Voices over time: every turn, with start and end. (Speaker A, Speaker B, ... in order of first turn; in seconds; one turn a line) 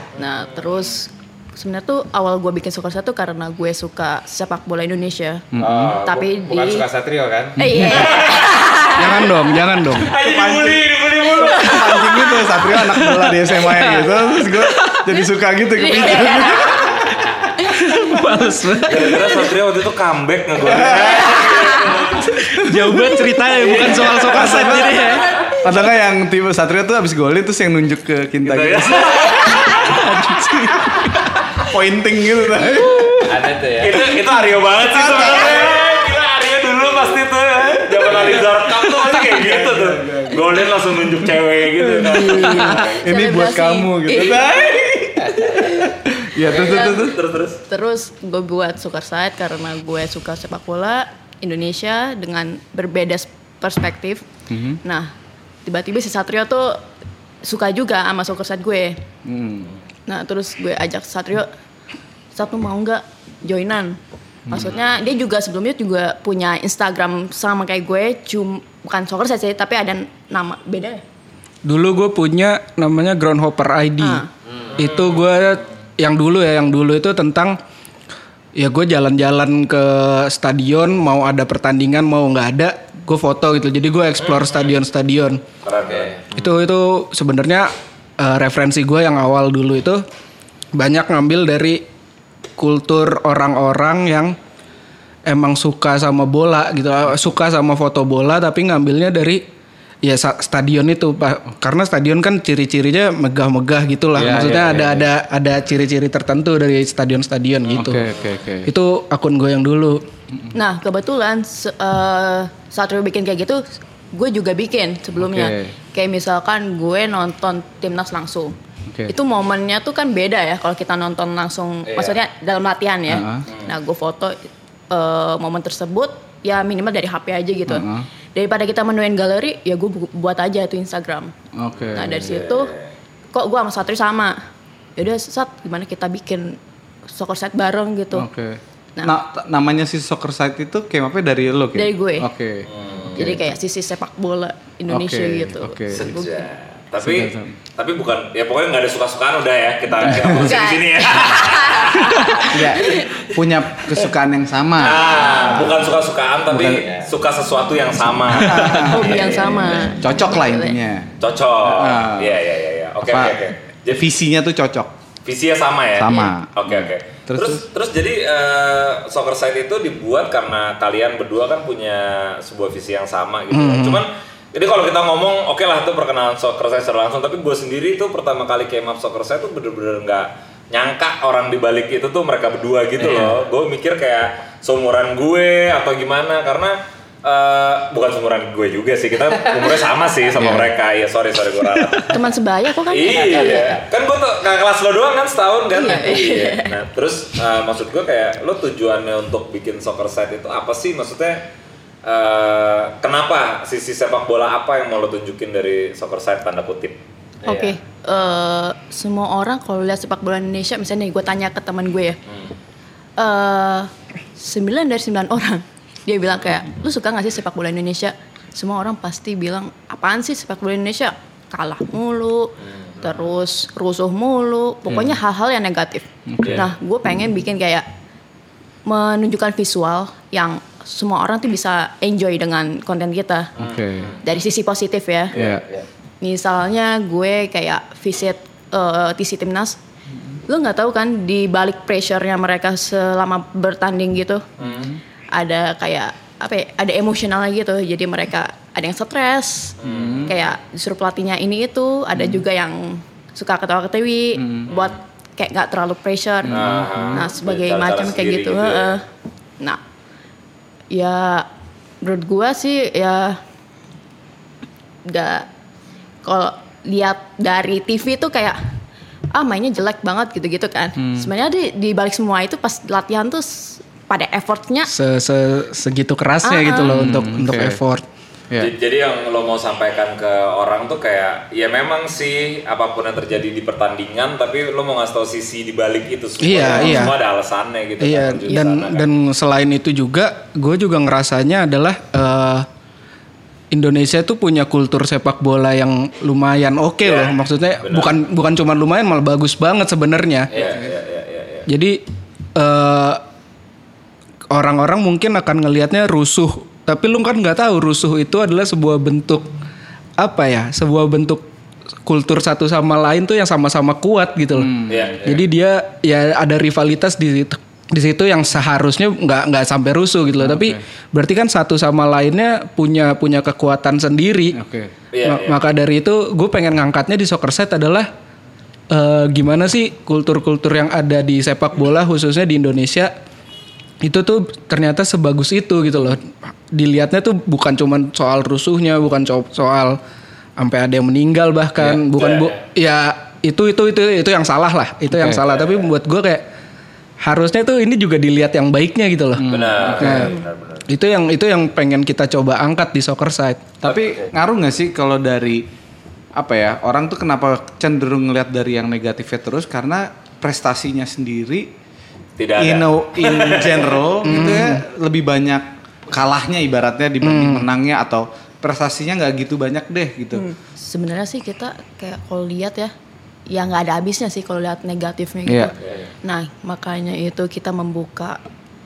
Speaker A: 0.1-5.4
Speaker B: 5.5-6.0
Speaker C: 5.6-7.7
Speaker A: 6.0-6.8
Speaker A: 7.6-9.3
Speaker B: 7.7-8.1
Speaker D: 8.0-8.5
Speaker E: 8.9-10.1
Speaker D: 9.9-12.3
Speaker B: 10.0-17.2
Speaker A: 11.4-12.4
Speaker E: 12.7-15.1
Speaker A: 15.8-16.6
Speaker D: 16.2-16.5
Speaker C: 17.1-17.5
Speaker E: 17.8-19.2
Speaker D: 18.9-22.3
Speaker B: 20.6-21.8
Speaker B: 22.3-22.7
Speaker E: 22.4-25.2
Speaker D: 23.6-25.6
Speaker B: 24.0-25.1
Speaker B: 25.6-29.7
Speaker D: 28.4-30.1
Speaker E: 29.8-31.0
Speaker B: 31.6-33.2
Speaker D: 32.7-43.0
Speaker C: 33.3-34.1
Speaker B: 34.7-36.1
Speaker B: 37.6-40.6
Speaker B: 41.8-47.2
Speaker A: 42.1-44.5
Speaker D: 44.1-44.8
Speaker A: 46.5-47.1
Speaker D: 46.5-47.6
Speaker A: 47.7-54.2
Speaker B: 54.5-54.8
Speaker A: 54.8-55.1
Speaker A: 55.6-56.8
Speaker A: 57.4-59.0
Speaker B: 59.2-59.7
Speaker A: 60.1-61.5
Speaker A: 62.3-64.0
Speaker B: 64.5-64.8
Speaker A: 64.5-71.0
Speaker E: 71.6-74.2
Speaker A: 74.0-74.3
Speaker C: 74.4-74.8
Speaker D: 74.7-75.2
Speaker E: 74.8-77.6
Speaker E: 78.6-85.4
Speaker D: 84.2-84.6
Speaker D: 85.6-86.5
Speaker C: 85.9-86.2
Speaker E: 86.3-90.0
Speaker E: 90.7-91.8
Speaker E: 92.6-94.4
Speaker E: 95.2-99.4
Speaker E: 100.0-108.1
Speaker B: 104.2-105.0
Speaker C: 104.2-105.0
Speaker B: 107.7-108.7
Speaker E: 108.6-110.0
Speaker A: 110.5-118.5
Speaker B: 115.2-115.7
Speaker A: 119.1-131.3
Speaker C: 121.9-122.2
Speaker B: 123.1-123.4
Speaker B: 127.7-128.1
Speaker B: 131.6-132.3
Speaker A: 131.9-132.7
Speaker D: 132.0-132.9
Speaker A: 133.3-134.4
Speaker A: 135.0-138.3
Speaker B: 138.1-143.5
Speaker A: 141.7-142.3
Speaker D: 142.7-143.2
Speaker A: 143.1-146.4
Speaker B: 144.9-146.1
Speaker D: 145.9-153.2
Speaker B: 147.0-147.6
Speaker B: 150.0-150.7
Speaker A: 150.1-153.1
Speaker B: 152.4-155.9
Speaker D: 154.8-159.8
Speaker B: 156.5-156.8
Speaker B: 158.3-161.1
Speaker E: 158.4-158.7
Speaker A: 158.6-160.8
Speaker D: 161.2-164.0
Speaker B: 161.6-162.3
Speaker B: 163.1-164.9
Speaker D: 165.2-192.2
Speaker B: 165.9-167.6
Speaker A: 166.1-166.3
Speaker E: 173.5-174.0
Speaker B: 183.0-183.3
Speaker B: 190.4-190.7
Speaker A: 192.1-193.8
Speaker D: 192.9-201.4
Speaker C: 193.3-193.7
Speaker A: 195.7-196.7
Speaker D: 202.0-207.0
Speaker C: 207.4-207.8
Speaker A: 207.5-212.2
Speaker A: 213.2-227.9
Speaker D: 222.6-223.1
Speaker B: 224.9-225.1
Speaker B: 226.3-226.7
Speaker A: 228.9-233.5
Speaker B: 233.6-234.1
Speaker D: 233.6-234.2
Speaker A: 234.2-235.3
Speaker B: 235.3-235.6
Speaker C: 235.3-235.9
Speaker A: 236.2-239.8
Speaker A: 240.5-244.4
Speaker D: 244.6-244.9
Speaker B: 244.6-245.0
Speaker A: 245.3-249.8
Speaker D: 249.8-250.3
Speaker B: 249.8-250.3
Speaker A: 250.3-259.0
Speaker B: 254.4-254.7
Speaker D: 254.7-254.9
Speaker B: 256.5-257.2
Speaker D: 256.5-259.0
Speaker A: 260.9-261.5
Speaker A: 262.0-263.4
Speaker A: 265.0-265.5
Speaker A: 266.2-268.6
Speaker A: 269.3-274.9
Speaker B: 271.0-271.3
Speaker E: 274.9-278.0
Speaker A: 276.4-277.0
Speaker B: 276.8-277.8
Speaker D: 278.6-289.1
Speaker E: 286.4-287.2
Speaker B: 286.7-287.0
Speaker E: 288.0-292.7
Speaker E: 293.7-300.5
Speaker D: 297.0-298.1
Speaker C: 300.5-300.9
Speaker D: 300.5-301.7
Speaker E: 301.7-302.0
Speaker E: 302.6-303.2
Speaker E: 304.5-309.5
Speaker E: 310.2-311.5
Speaker E: 312.1-324.6
Speaker B: 314.6-315.2
Speaker D: 314.9-315.4
Speaker B: 320.4-320.8
Speaker B: 324.5-324.9
Speaker D: 325.1-325.6
Speaker E: 325.2-328.1
Speaker E: 328.9-333.1
Speaker E: 334.0-340.0
Speaker E: 340.6-346.4
Speaker D: 342.1-342.6
Speaker B: 345.1-345.4
Speaker E: 347.2-350.4
Speaker B: 349.4-350.3
Speaker D: 349.5-350.9
Speaker C: 349.9-350.2
Speaker E: 350.9-353.7
Speaker B: 353.8-355.7
Speaker B: 356.4-361.7
Speaker D: 362.4-364.4
Speaker B: 362.6-370.5
Speaker E: 364.2-364.8
Speaker E: 367.2-367.6
Speaker A: 370.3-372.9
Speaker A: 373.5-378.4
Speaker B: 375.5-375.7
Speaker D: 375.8-376.1